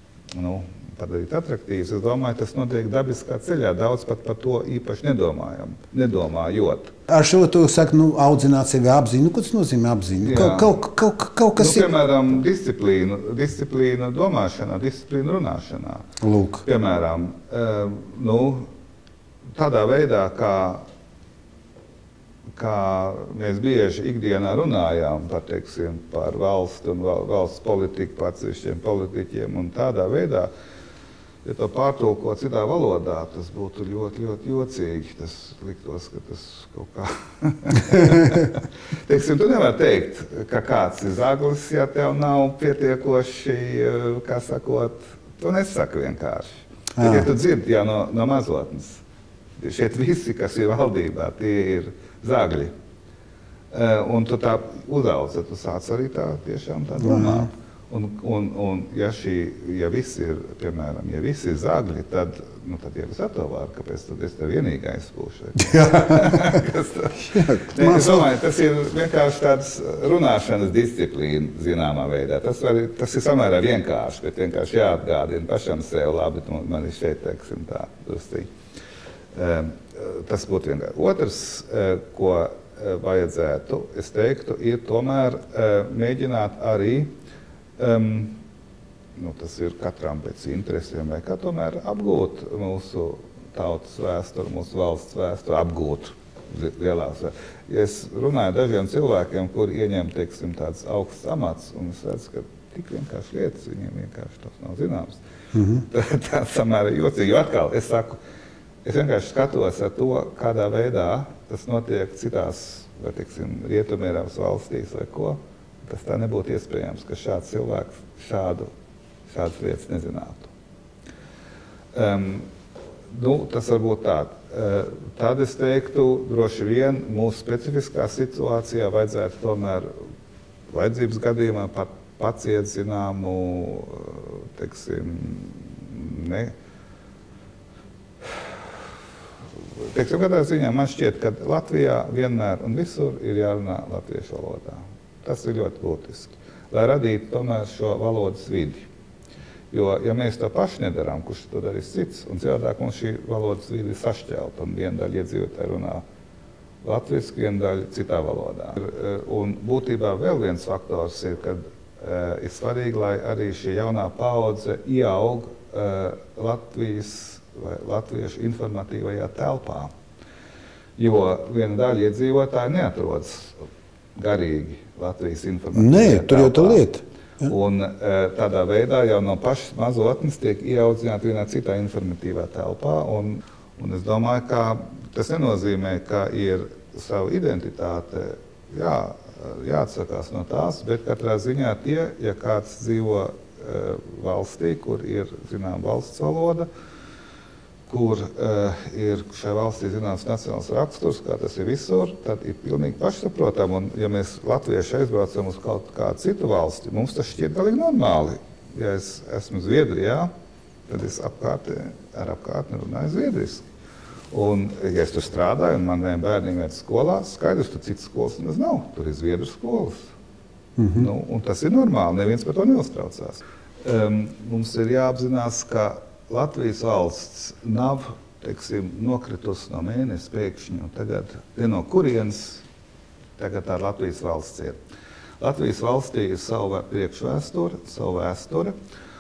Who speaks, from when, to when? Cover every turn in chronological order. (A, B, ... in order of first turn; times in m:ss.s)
0:00.3-0:06.9 A
0:07.1-0:11.9 B
0:10.2-0:10.7 A
0:11.6-0:16.1 A
0:16.2-0:16.6 B
0:16.6-0:18.7 A
0:19.6-0:20.8 A
0:22.6-0:30.5 A
0:31.4-0:49.0 A
0:47.0-0:47.3 B
0:49.6-0:52.7 A
0:53.7-1:18.5 A
0:57.0-0:57.5 B
1:05.7-1:06.6 B
1:07.2-1:08.3 B
1:19.3-1:27.1 A
1:27.8-1:28.4 A
1:29.2-1:45.2 A
1:45.5-1:45.8 B
1:45.8-1:48.2 A
1:48.8-1:58.7 A
1:59.3-2:00.5 A
2:01.9-2:02.5 A
2:03.1-2:09.9 A
2:10.7-2:16.5 A
2:19.8-2:28.9 A
2:29.7-2:36.0 A
2:36.8-2:49.9 A
2:51.0-2:53.6 A
2:54.2-2:56.8 A
2:55.7-2:57.4 B
2:57.4-3:16.7 A
3:17.9-3:30.3 A
3:30.9-3:33.7 A
3:34.3-3:40.1 A
3:40.8-3:41.1 B
3:41.0-3:52.6 A
3:53.4-3:54.8 A
3:55.4-3:58.8 A